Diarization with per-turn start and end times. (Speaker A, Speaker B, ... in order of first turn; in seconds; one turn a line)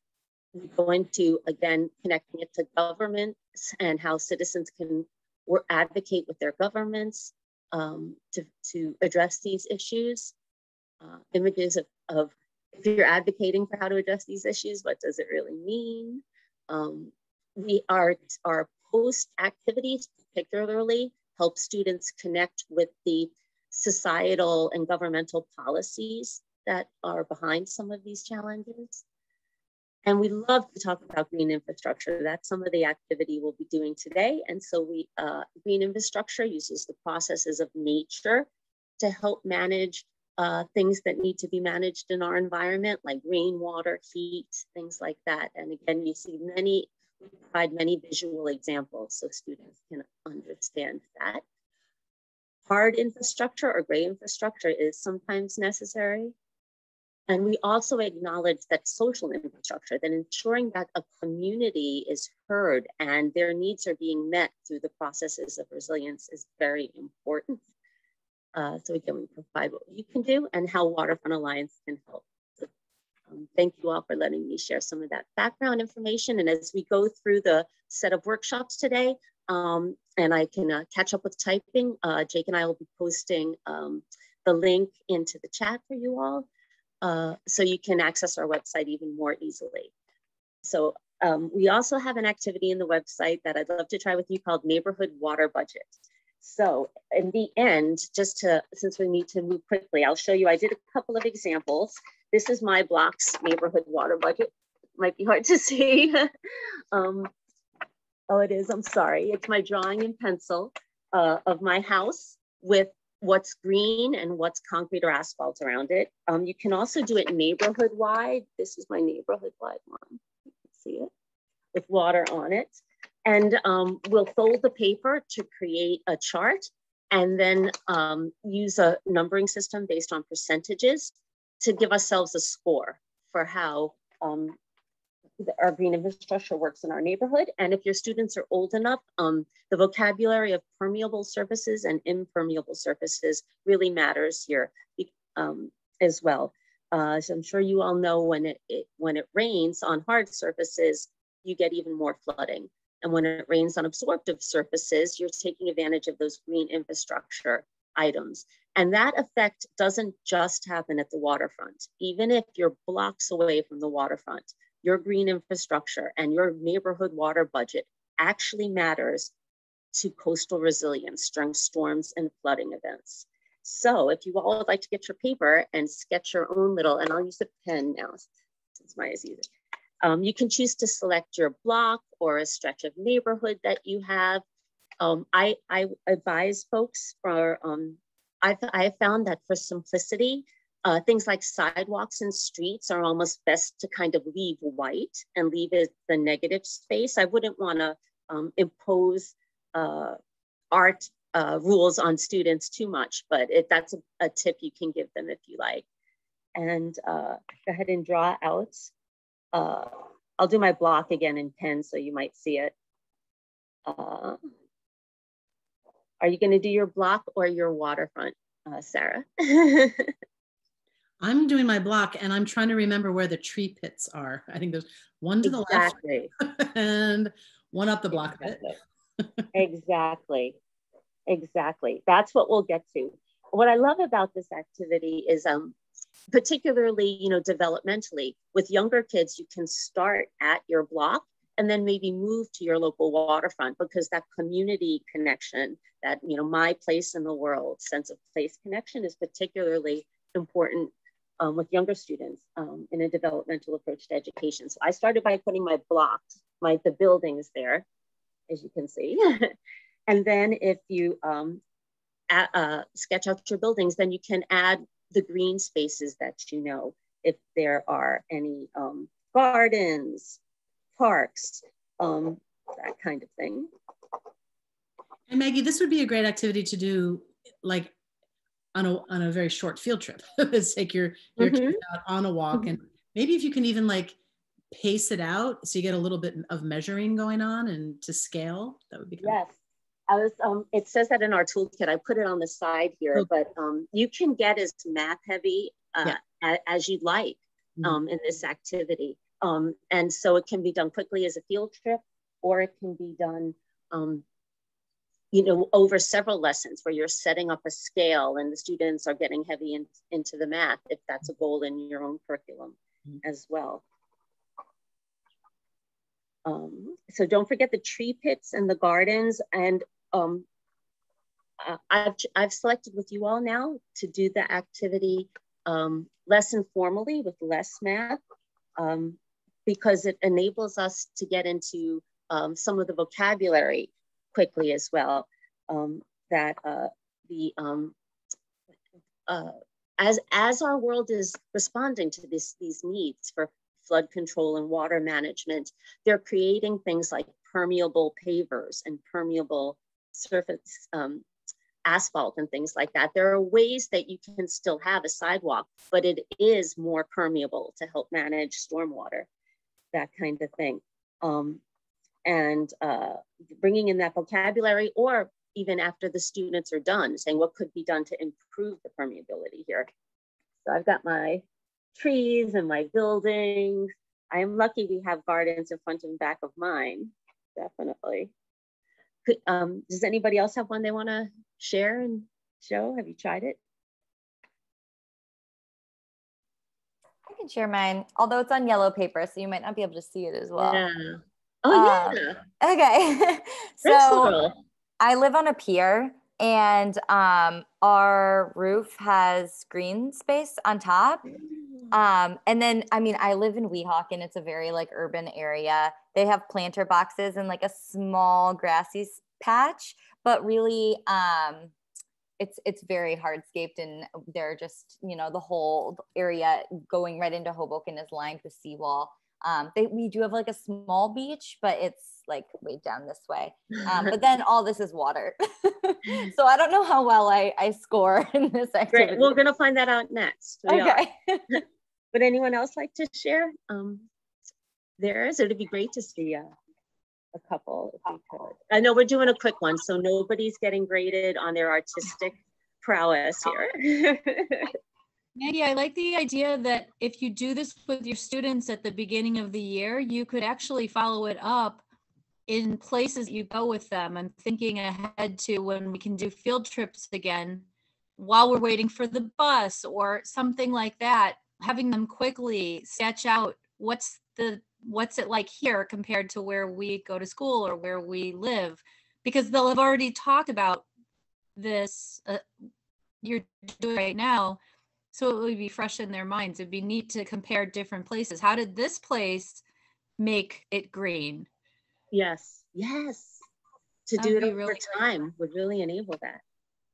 Speaker A: 0.5-10.3
Speaker A: 11.0-29.0
Speaker A: 30.1-38.5
Speaker A: 39.0-51.4
Speaker A: 52.7-56.3
Speaker A: 57.3-67.6
Speaker A: 68.5-72.7
Speaker A: 73.3-86.5
Speaker A: 87.0-89.9
Speaker A: 90.6-106.3
Speaker A: 106.9-107.3
Speaker A: 108.3-121.1
Speaker A: 121.7-134.6
Speaker A: 135.4-169.3
Speaker A: 169.9-178.3
Speaker A: 178.8-179.5
Speaker A: 180.0-184.4
Speaker A: 185.0-200.2
Speaker A: 200.7-205.8
Speaker A: 206.6-208.9
Speaker A: 209.5-212.7
Speaker A: 213.8-214.5
Speaker A: 216.2-220.1
Speaker B: 221.2-228.7
Speaker A: 225.4-226.3
Speaker A: 228.1-228.7
Speaker A: 229.5-230.6
Speaker A: 231.3-235.7
Speaker A: 236.3-257.8
Speaker A: 258.5-259.5
Speaker A: 260.1-261.6
Speaker A: 262.3-270.4
Speaker A: 271.0-273.7
Speaker B: 275.3-277.9
Speaker B: 278.7-284.1
Speaker A: 281.4-281.8
Speaker B: 284.7-289.4
Speaker A: 289.2-289.5
Speaker A: 290.1-304.2
Speaker A: 305.3-313.8
Speaker A: 316.4-320.4
Speaker A: 321.6-328.2
Speaker A: 328.8-337.9
Speaker A: 339.3-351.2
Speaker A: 351.8-359.3
Speaker A: 359.9-361.6
Speaker A: 362.2-369.9
Speaker A: 370.6-371.4
Speaker A: 371.9-378.3
Speaker A: 379.2-383.6
Speaker C: 387.2-390.9
Speaker A: 390.6-392.4
Speaker C: 391.7-394.4
Speaker A: 393.8-394.6
Speaker C: 395.0-401.2
Speaker C: 401.9-411.7
Speaker C: 412.4-429.4
Speaker A: 428.9-431.0
Speaker C: 430.7-431.6
Speaker A: 432.1-434.1
Speaker A: 435.0-436.5
Speaker A: 437.3-444.7
Speaker D: 445.4-451.8
Speaker D: 452.5-457.6
Speaker D: 458.2-470.9
Speaker D: 471.6-472.4
Speaker D: 473.2-474.6
Speaker D: 475.1-479.6
Speaker D: 480.2-481.5
Speaker A: 482.1-483.4
Speaker A: 484.1-486.4
Speaker D: 484.2-485.0